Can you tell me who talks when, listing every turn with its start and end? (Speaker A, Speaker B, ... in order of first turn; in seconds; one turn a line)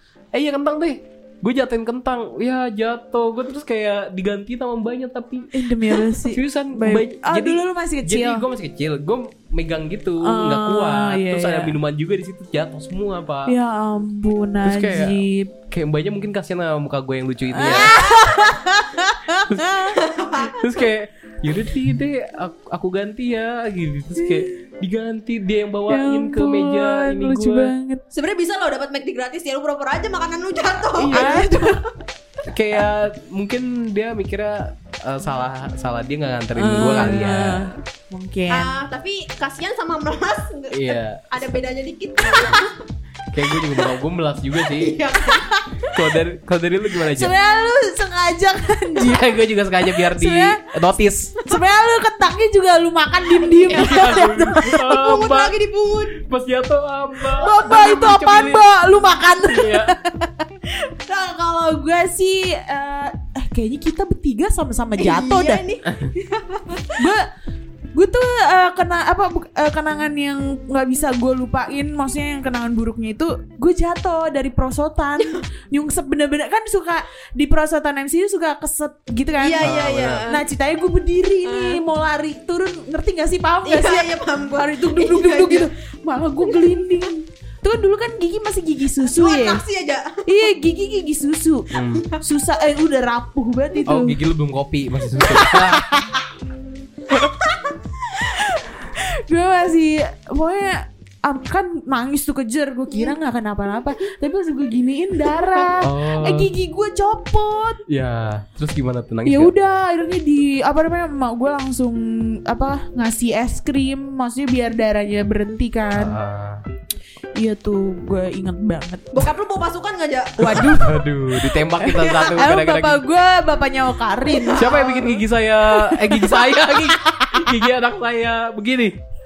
Speaker A: 0.3-13.5
Speaker B: 5.5-8.4
Speaker B: 10.2-11.8
Speaker B: 13.4-15.5
Speaker A: 14.6-15.2
Speaker A: 15.7-18.0
Speaker B: 17.5-19.9
Speaker C: 17.7-18.6
Speaker A: 19.5-27.7
Speaker C: 20.0-20.5
Speaker B: 24.2-24.4
Speaker B: 25.9-28.0
Speaker C: 28.1-31.8
Speaker B: 31.0-31.7
Speaker A: 32.5-37.7
Speaker B: 36.5-38.7
Speaker C: 38.5-42.7
Speaker A: 40.7-41.3
Speaker A: 43.3-45.0
Speaker C: 43.5-44.0
Speaker C: 44.6-45.4
Speaker B: 45.2-46.1
Speaker A: 45.9-47.4
Speaker B: 47.0-49.4
Speaker A: 49.0-51.4
Speaker B: 49.9-55.0
Speaker A: 53.7-55.5
Speaker C: 54.8-56.1
Speaker A: 56.2-58.7
Speaker B: 57.4-60.4
Speaker A: 59.3-59.9
Speaker B: 61.0-65.6
Speaker C: 65.0-66.9
Speaker B: 67.0-67.2
Speaker B: 67.9-79.7
Speaker C: 79.4-80.4
Speaker A: 79.6-80.2
Speaker B: 80.3-89.6
Speaker C: 81.4-81.8
Speaker C: 83.6-85.7
Speaker C: 86.4-87.1
Speaker C: 89.0-90.1
Speaker B: 90.2-94.2
Speaker A: 91.7-92.0
Speaker A: 93.8-95.9
Speaker B: 95.2-96.2
Speaker C: 97.5-97.7
Speaker B: 98.3-107.8
Speaker A: 105.8-106.5
Speaker A: 107.9-109.5
Speaker B: 109.2-116.2
Speaker A: 115.9-116.6
Speaker B: 117.4-119.3
Speaker C: 119.1-120.4
Speaker B: 120.4-125.1
Speaker A: 120.5-123.0
Speaker C: 124.3-125.0
Speaker A: 124.5-128.9
Speaker B: 125.7-127.6